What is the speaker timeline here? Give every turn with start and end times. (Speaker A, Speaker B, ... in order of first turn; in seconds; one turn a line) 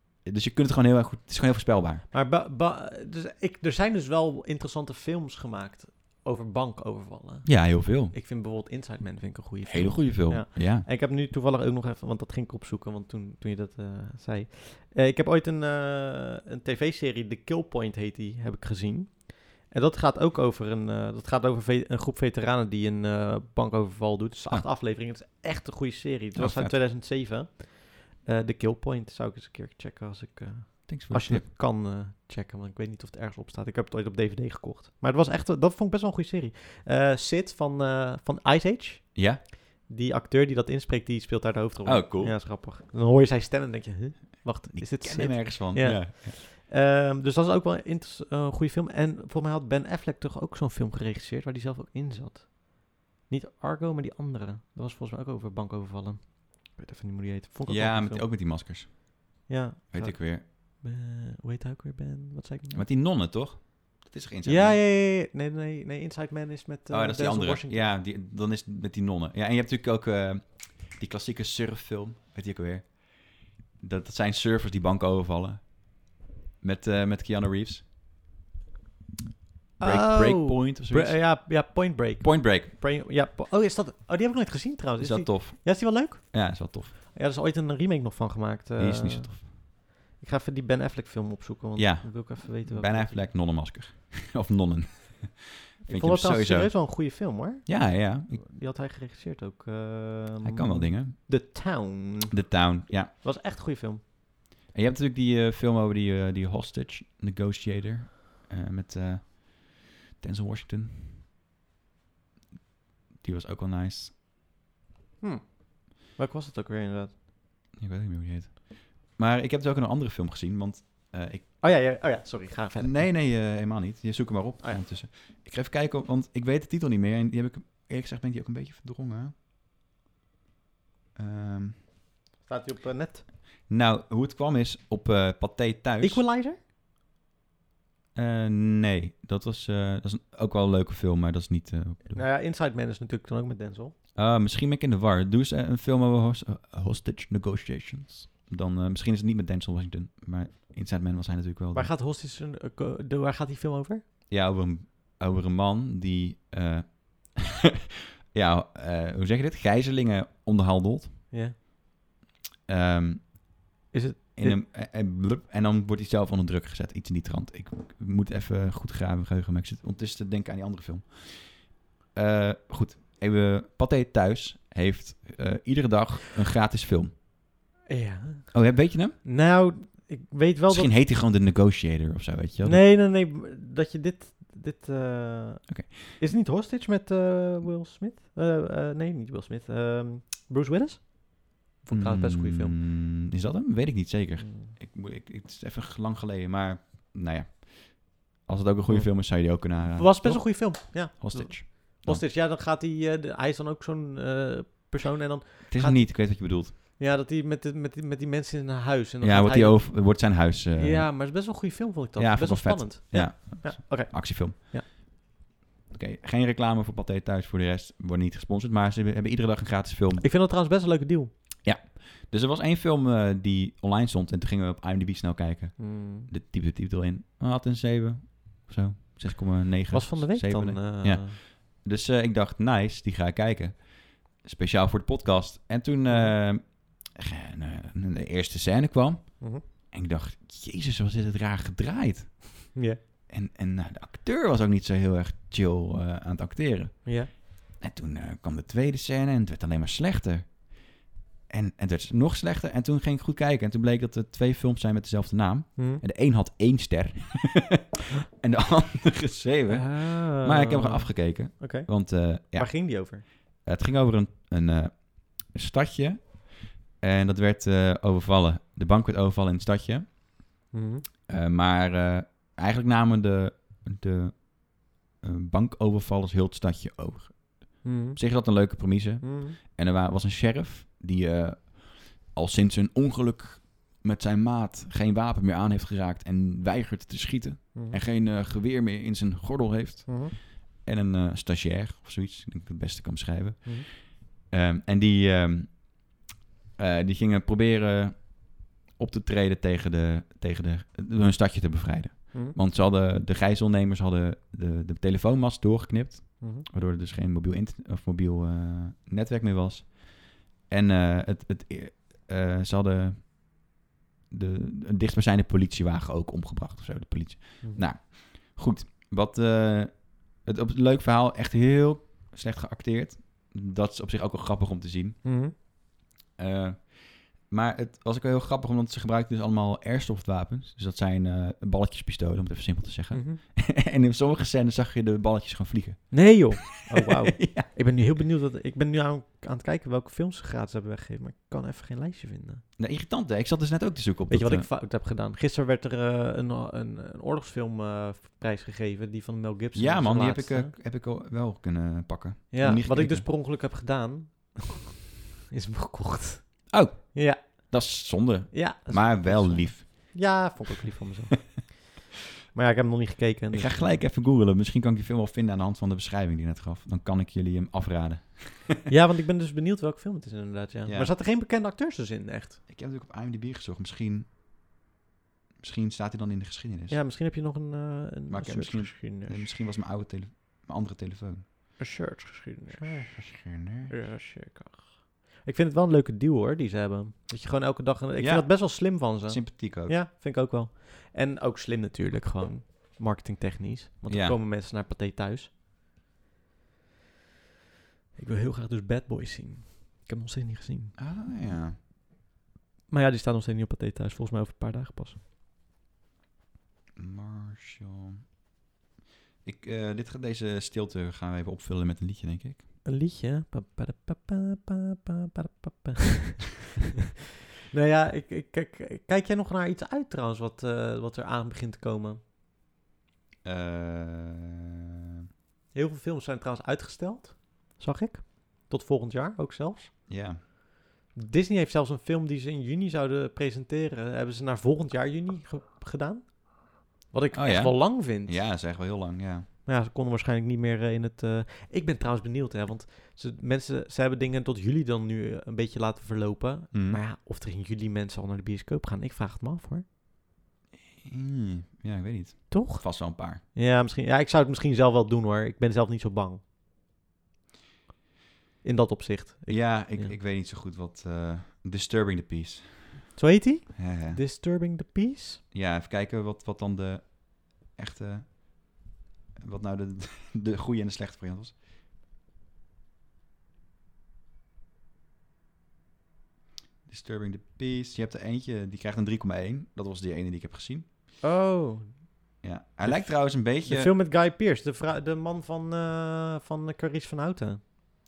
Speaker A: 0.2-2.0
Speaker B: 2.1-58.2
Speaker A: 7.4-8.1
Speaker A: 9.6-10.8
Speaker A: 26.3-26.8
Speaker A: 30.9-31.4
Speaker A: 39.1-39.4
Speaker A: 41.8-42.4
Speaker A: 44.7-46.4
Speaker A: 57.6-60.4
Speaker B: 59.5-62.8
Speaker A: 62.7-64.8
Speaker B: 64.4-67.8
Speaker A: 66.9-77.9
Speaker A: 79.8-81.5
Speaker B: 79.8-93.2
Speaker A: 82.2-82.7
Speaker A: 85.0-86.9
Speaker A: 88.8-89.5
Speaker A: 91.8-97.0
Speaker B: 95.8-102.5
Speaker A: 97.7-98.4
Speaker A: 100.4-101.2
Speaker A: 102.3-103.1
Speaker B: 103.1-104.0
Speaker A: 104.7-111.2
Speaker A: 113.2-114.1
Speaker B: 115.2-117.1
Speaker A: 117.8-121.5
Speaker B: 121.6-123.1
Speaker A: 122.8-129.3
Speaker A: 131.2-131.8
Speaker B: 132.4-133.2
Speaker A: 133.7-136.2
Speaker B: 136.0-136.6
Speaker A: 138.1-142.2
Speaker B: 142.1-143.9
Speaker A: 144.1-151.9
Speaker B: 151.7-154.0
Speaker A: 154.3-157.5
Speaker A: 158.3-161.2
Speaker A: 162.7-163.5
Speaker B: 163.9-164.6
Speaker A: 164.3-177.1
Speaker B: 177.9-180.9
Speaker A: 178.5-179.2
Speaker A: 180.7-182.8
Speaker B: 182.6-192.7
Speaker A: 185.7-186.1
Speaker A: 191.9-202.2
Speaker B: 194.4-194.7
Speaker B: 198.9-214.8
Speaker A: 205.7-206.7
Speaker A: 209.2-211.1
Speaker A: 212.2-214.9
Speaker A: 215.9-220.3
Speaker B: 220.2-221.3
Speaker A: 221.6-242.7
Speaker B: 225.8-226.3
Speaker B: 229.9-231.4
Speaker B: 236.1-236.3
Speaker A: 243.3-247.2
Speaker A: 247.8-250.7
Speaker A: 251.5-270.3
Speaker B: 255.8-256.0
Speaker B: 259.7-263.2
Speaker B: 270.7-271.0
Speaker A: 271.3-296.1
Speaker B: 277.8-278.2
Speaker B: 279.2-279.6
Speaker B: 287.7-288.0
Speaker B: 290.1-290.3
Speaker A: 296.8-313.6
Speaker A: 314.3-325.2
Speaker B: 325.2-325.5
Speaker A: 326.4-337.7
Speaker B: 333.1-333.4
Speaker B: 336.1-342.6
Speaker A: 342.8-344.7
Speaker B: 344.3-350.7
Speaker A: 349.7-353.2
Speaker B: 352.5-354.8
Speaker B: 355.5-357.7
Speaker A: 356.7-360.1
Speaker B: 358.5-361.9
Speaker B: 362.5-364.0
Speaker A: 363.5-368.8
Speaker B: 368.9-372.6
Speaker A: 370.9-371.1
Speaker A: 372.7-374.3
Speaker A: 375.6-377.0
Speaker B: 376.9-379.5
Speaker A: 378.3-381.4
Speaker B: 381.8-395.5
Speaker A: 382.7-383.9
Speaker A: 388.2-390.0
Speaker A: 394.1-394.4
Speaker B: 398.1-400.9
Speaker A: 401.0-401.8
Speaker B: 402.9-405.2
Speaker A: 406.9-408.2
Speaker A: 409.4-412.6
Speaker B: 412.8-416.7
Speaker B: 417.7-422.2
Speaker A: 423.4-424.8
Speaker B: 425.7-429.9
Speaker A: 430.1-430.4
Speaker B: 431.1-438.4
Speaker A: 437.3-439.5
Speaker B: 439.6-449.8
Speaker A: 446.7-447.0
Speaker A: 450.8-453.4
Speaker B: 452.5-456.4
Speaker B: 458.6-460.1
Speaker A: 459.5-463.1
Speaker B: 463.2-465.4
Speaker A: 463.8-464.2
Speaker A: 465.5-468.9
Speaker A: 469.4-471.6
Speaker A: 476.9-480.9
Speaker B: 481.2-482.1
Speaker A: 482.4-483.9
Speaker B: 482.8-487.6